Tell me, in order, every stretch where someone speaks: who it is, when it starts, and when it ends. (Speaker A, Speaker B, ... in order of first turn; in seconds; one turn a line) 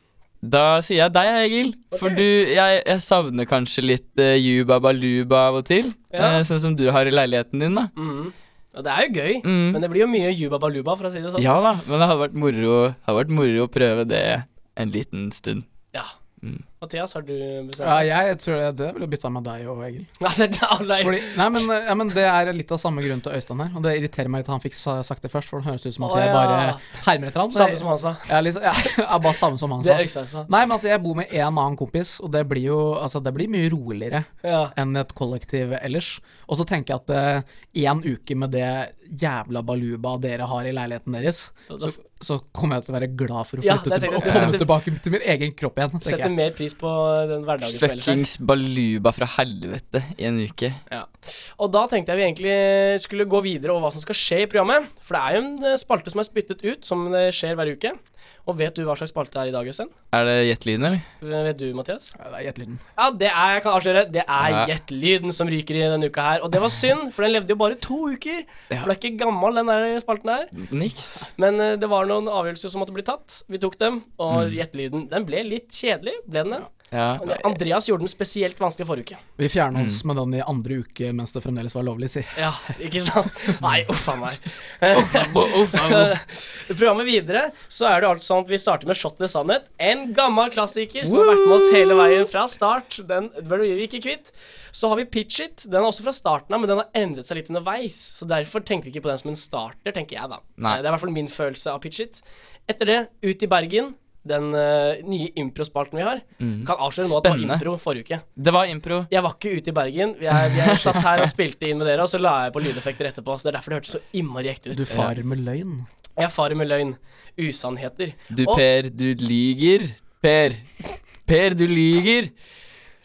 Speaker A: 0.4-7.9
Speaker B: 1.9-2.2
Speaker B: 6.1-6.4
Speaker B: 8.0-11.5
Speaker A: 9.4-9.8
Speaker A: 11.4-15.7
Speaker B: 16.8-18.1
Speaker C: 17.8-20.1
Speaker B: 20.2-21.4
Speaker C: 21.0-46.3
Speaker B: 26.0-27.0
Speaker B: 27.5-28.3
Speaker B: 29.8-30.5
Speaker B: 34.4-34.7
Speaker B: 41.7-42.0
Speaker B: 43.6-44.7
Speaker A: 44.2-44.6
Speaker B: 46.0-48.2
Speaker A: 47.7-50.8
Speaker B: 50.9-59.9
Speaker A: 60.1-61.0
Speaker B: 61.2-62.1
Speaker C: 62.1-62.8
Speaker B: 63.0-70.5
Speaker A: 64.4-64.7
Speaker A: 70.6-71.3
Speaker B: 71.4-76.7
Speaker A: 74.3-74.6
Speaker A: 76.9-77.6
Speaker B: 77.2-79.2
Speaker C: 79.4-82.5
Speaker A: 79.8-80.0
Speaker B: 82.4-108.2
Speaker A: 85.0-86.2
Speaker A: 91.0-92.2
Speaker A: 106.4-107.7
Speaker A: 108.4-109.1
Speaker B: 109.1-115.1
Speaker A: 110.5-111.3
Speaker C: 114.7-115.9
Speaker B: 116.2-118.6
Speaker A: 118.3-120.7
Speaker A: 121.3-122.3